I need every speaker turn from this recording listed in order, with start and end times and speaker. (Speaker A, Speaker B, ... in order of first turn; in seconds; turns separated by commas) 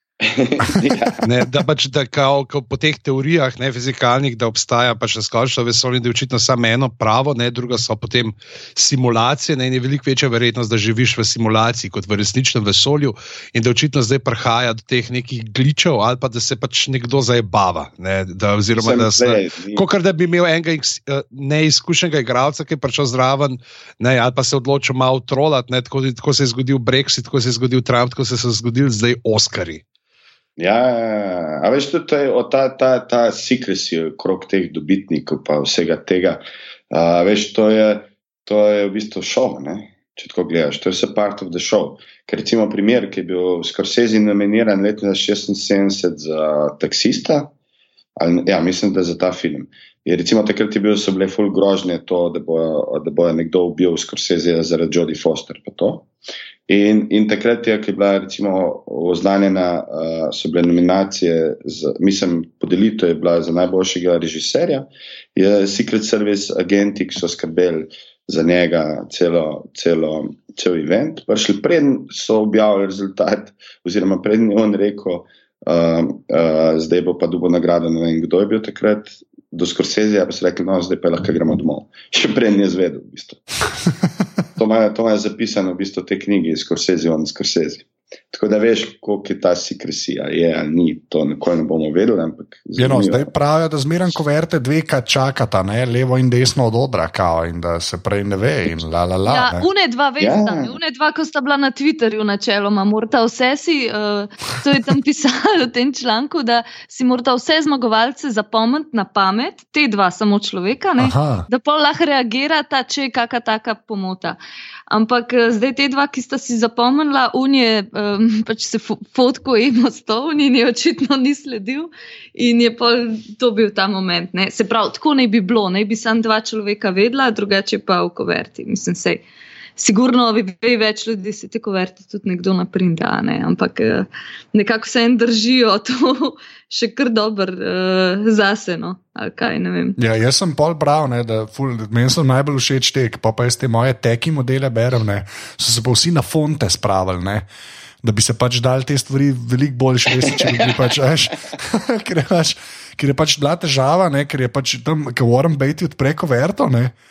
Speaker A: 0.2-1.2, Speaker B: 1.2-29.8, Speaker A: 18.8-19.8, Speaker A: 30.6-47.5, Speaker A: 48.2-56.1, Speaker A: 56.7-83.4, Speaker A: 84.6-93.3, Speaker C: 92.8-99.7, Speaker D: 99.3-114.4, Speaker A: 100.2-100.8, Speaker C: 111.0-111.5, Speaker D: 114.9-129.2, Speaker D: 129.8-140.0, Speaker C: 140.0-147.5, Speaker C: 148.0-156.9